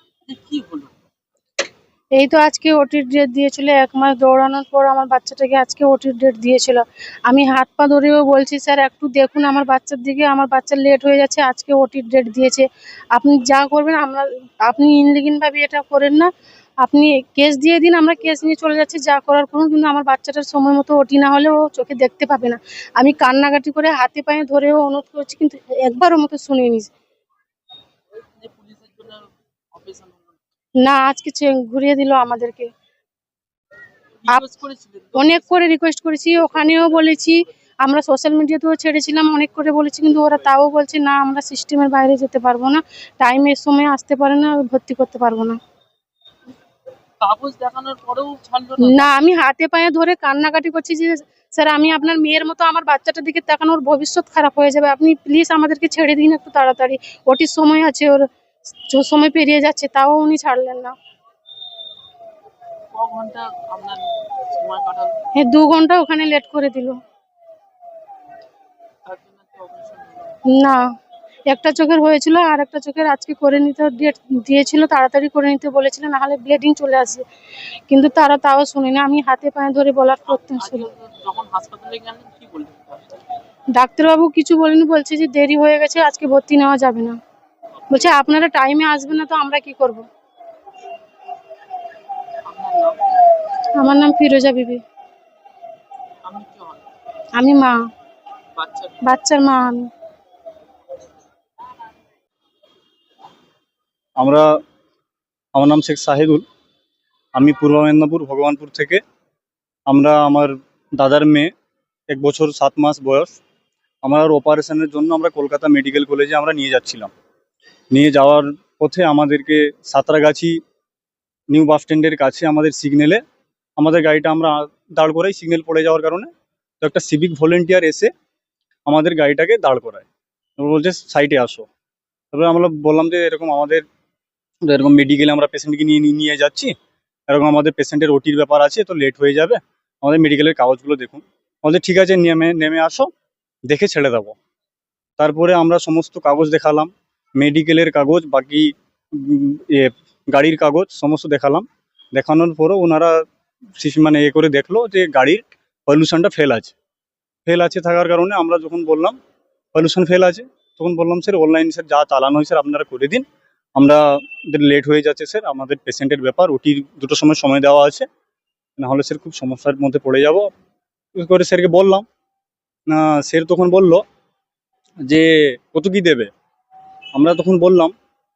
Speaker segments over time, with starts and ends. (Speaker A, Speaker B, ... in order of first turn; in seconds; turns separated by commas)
Speaker A: 0.3-0.9, Speaker B: 2.1-16.3, Speaker B: 16.8-26.9, Speaker A: 28.4-30.3, Speaker B: 30.8-32.7, Speaker A: 34.2-37.4, Speaker B: 35.1-45.6, Speaker A: 47.2-49.2, Speaker B: 48.8-58.2, Speaker B: 58.9-60.9, Speaker A: 62.9-65.3, Speaker B: 65.4-67.0, Speaker A: 69.0-70.4, Speaker B: 70.5-70.8, Speaker B: 71.5-77.2, Speaker B: 77.9-80.9, Speaker A: 80.3-83.2, Speaker B: 83.7-87.2, Speaker B: 87.9-90.0, Speaker A: 92.5-93.0, Speaker B: 93.8-94.8, Speaker A: 96.2-96.8, Speaker B: 97.3-97.8, Speaker A: 98.5-99.0, Speaker B: 99.0-99.9, Speaker C: 104.2-104.5, Speaker C: 105.5-106.4, Speaker C: 107.3-109.0, Speaker C: 109.9-111.5, Speaker C: 112.1-113.4, Speaker C: 114.0-117.1, Speaker C: 117.9-120.6, Speaker C: 121.5-123.2, Speaker C: 123.8-126.3, Speaker C: 126.8-128.1, Speaker C: 128.8-130.1, Speaker C: 130.6-131.7, Speaker C: 132.3-133.8, Speaker C: 134.6-136.7, Speaker C: 137.3-143.1, Speaker C: 143.7-144.3, Speaker C: 145.2-153.2, Speaker C: 153.8-156.7, Speaker C: 157.4-159.2, Speaker C: 159.7-163.2, Speaker C: 163.8-168.1, Speaker C: 168.8-170.5, Speaker C: 171.2-172.0, Speaker C: 172.9-174.0, Speaker C: 175.1-176.3, Speaker C: 177.1-177.9